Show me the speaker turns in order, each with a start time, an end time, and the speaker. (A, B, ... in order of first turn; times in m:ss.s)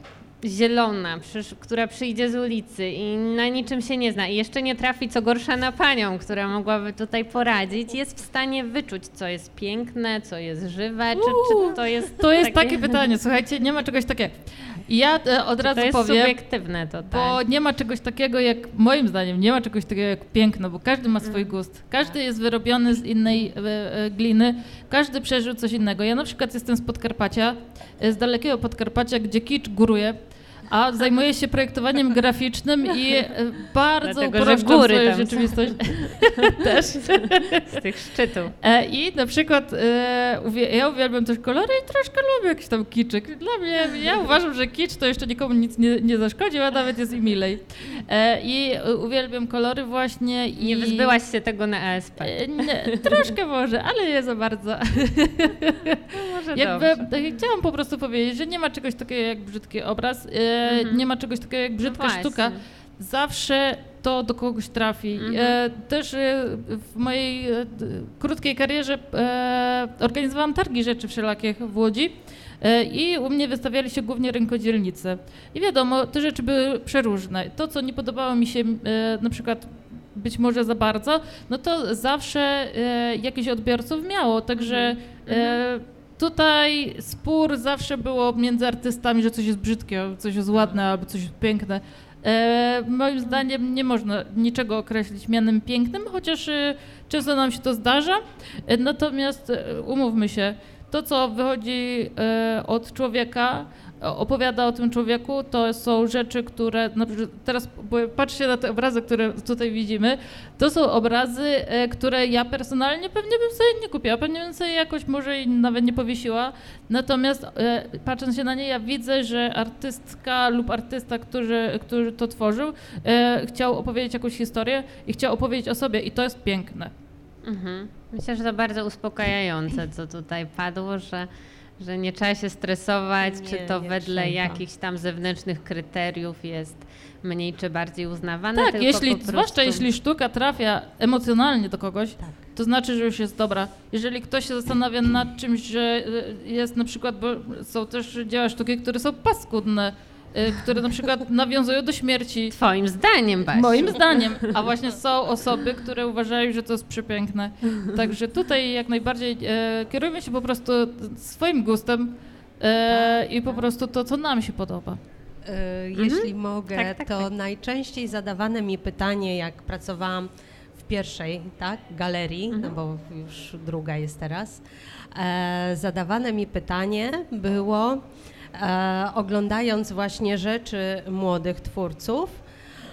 0:00.4-0:12.9 A
0:11.2-0:16.4 B
0:15.6-0:17.4 A
0:17.1-0:37.8 B
0:21.2-0:21.5 A
0:34.0-0:38.6 A
0:38.6-0:51.1 B
0:50.6-0:53.3 A
0:52.2-2:06.9 B
0:56.1-0:57.0 A
1:00.6-1:01.0 A
1:01.8-1:02.6 A
1:05.2-1:05.6 A
1:24.6-1:25.6 A
2:07.4-2:11.3 A
2:11.8-2:19.9 A
2:13.2-2:14.6 C
2:18.5-2:32.5 B
2:32.5-2:34.5 A
2:33.5-2:45.0 B
2:45.4-2:54.6 C
2:46.0-2:47.3 A
2:55.1-3:02.4 C